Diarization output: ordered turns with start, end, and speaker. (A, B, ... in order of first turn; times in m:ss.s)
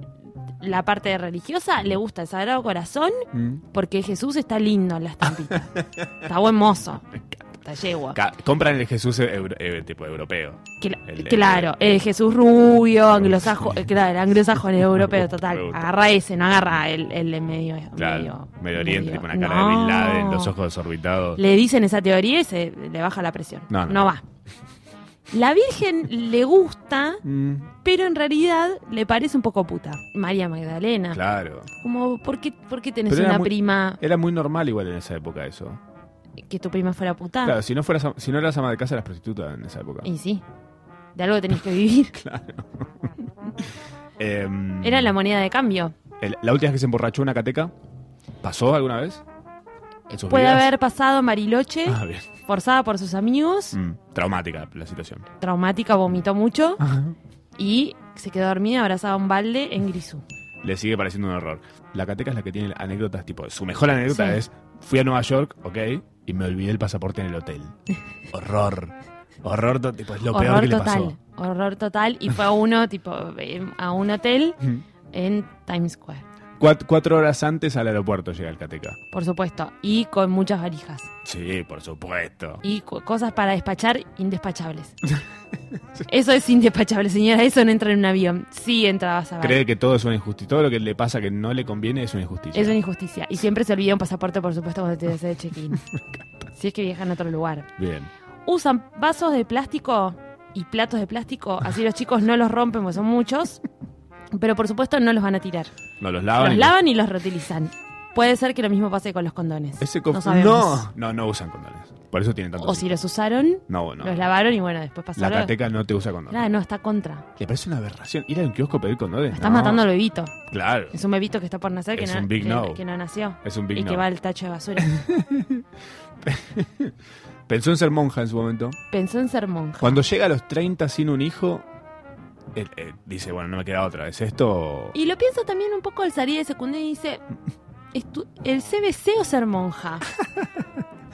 0:00.6-0:07.1 A
0:03.3-0:03.6 B
0:05.5-0:06.1 B
0:07.6-0:08.2 A
0:08.1-0:11.7 B
0:10.8-0:20.5 A
0:13.1-0:13.9 B
0:14.9-0:15.8 B
0:18.0-0:21.4 B
0:21.4-0:24.2 A
0:23.7-0:24.1 B
0:25.3-0:27.2 A
0:27.2-0:27.7 B
0:27.8-0:31.2 A
0:31.1-0:31.7 B
0:31.8-0:34.0 A
0:33.1-0:35.8 B
0:36.5-0:37.6 A
0:37.4-0:40.1 B
0:40.0-0:40.4 A
0:41.1-0:42.2 A
0:42.1-0:45.2 B
0:44.8-0:46.0 A
0:46.2-0:47.7 B
0:48.4-0:49.2 B
0:50.1-0:53.8 A
0:50.1-0:50.7 B
0:51.8-0:52.3 B
0:53.7-0:55.3 B
0:55.4-0:56.8 A
0:56.8-0:57.2 B
0:57.6-1:00.2 A
1:00.6-1:07.7 B
1:04.1-1:04.4 A
1:08.3-1:11.2 B
1:10.3-1:14.6 A
1:15.1-1:16.2 A
1:16.6-1:19.0 B
1:19.1-1:21.1 A
1:21.2-1:22.6 B
1:22.6-1:25.0 A
1:26.1-1:29.6 A
1:29.4-1:32.8 B
1:32.5-1:35.8 A
1:36.0-1:36.2 B
1:36.5-1:37.7 A
1:37.8-1:38.1 B
1:38.4-1:43.6 A
1:44.3-1:45.7 A
1:46.0-1:46.8 B
1:46.3-1:50.8 A
1:49.8-1:52.9 B
1:52.6-1:55.5 A
1:53.7-1:54.2 B
1:55.2-1:56.4 B
1:56.3-1:57.2 A
1:57.4-1:59.8 B
1:59.3-2:00.4 A
2:00.5-2:00.9 B
2:00.9-2:05.0 A
2:01.9-2:02.8 B
2:03.4-2:04.1 B
2:04.8-2:05.6 B
2:06.2-2:06.9 B
2:07.5-2:08.8 B
2:08.9-2:10.0 A
2:09.8-2:11.6 B
2:12.5-2:14.9 B
2:14.9-2:17.2 A
2:17.9-2:20.0 A
2:20.1-2:20.6 B